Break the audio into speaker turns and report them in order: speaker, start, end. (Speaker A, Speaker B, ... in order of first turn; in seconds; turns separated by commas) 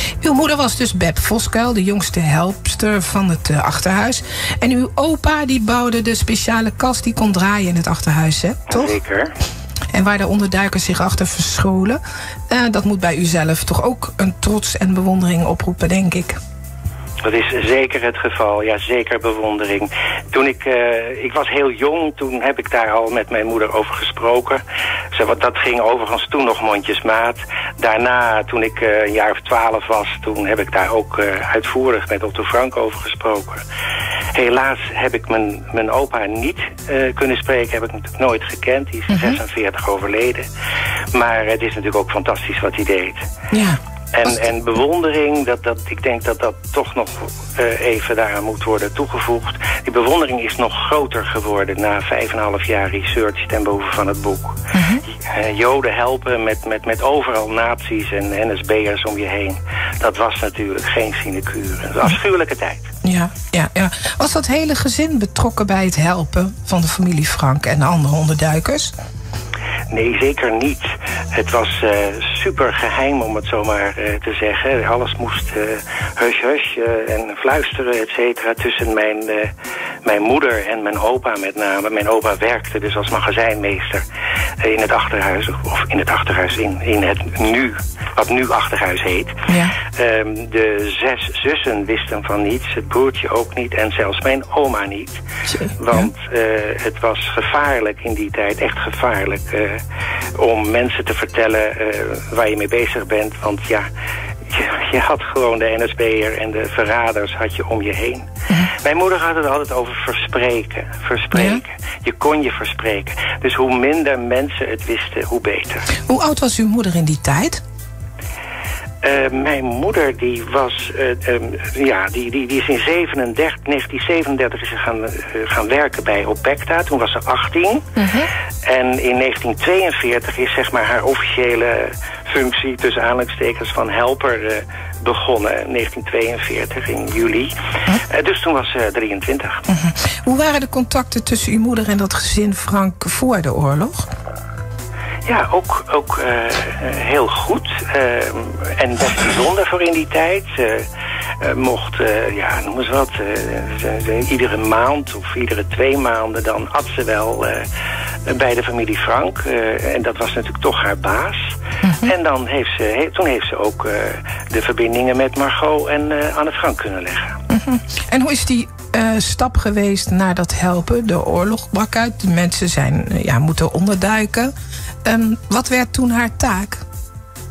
Speaker A: 0.2-8.9, Speaker B: 8.7-9.3, Speaker A: 9.9-16.4, Speaker B: 17.2-24.6, Speaker B: 25.1-33.6, Speaker B: 34.3-40.5, Speaker A: 39.1-39.4, Speaker B: 41.1-43.2, Speaker A: 43.5-43.8, Speaker B: 44.1-54.6, Speaker A: 54.7-55.0, Speaker B: 55.2-62.9, Speaker A: 63.0-68.9, Speaker B: 69.9-79.5, Speaker B: 80.0-84.0, Speaker B: 84.6-95.2, Speaker A: 89.5-89.8, Speaker A: 95.5-96.1, Speaker B: 95.8-99.8, Speaker B: 100.4-103.9, Speaker B: 104.5-115.9, Speaker A: 116.1-117.6, Speaker B: 119.0-127.9, Speaker A: 128.0-128.3, Speaker B: 128.7-137.5, Speaker B: 138.1-139.7, Speaker A: 139.7-144.1, Speaker B: 145.3-150.9, Speaker B: 151.4-157.7, Speaker B: 158.3-167.4, Speaker A: 161.8-162.1, Speaker A: 167.5-174.5, Speaker A: 175.1-176.8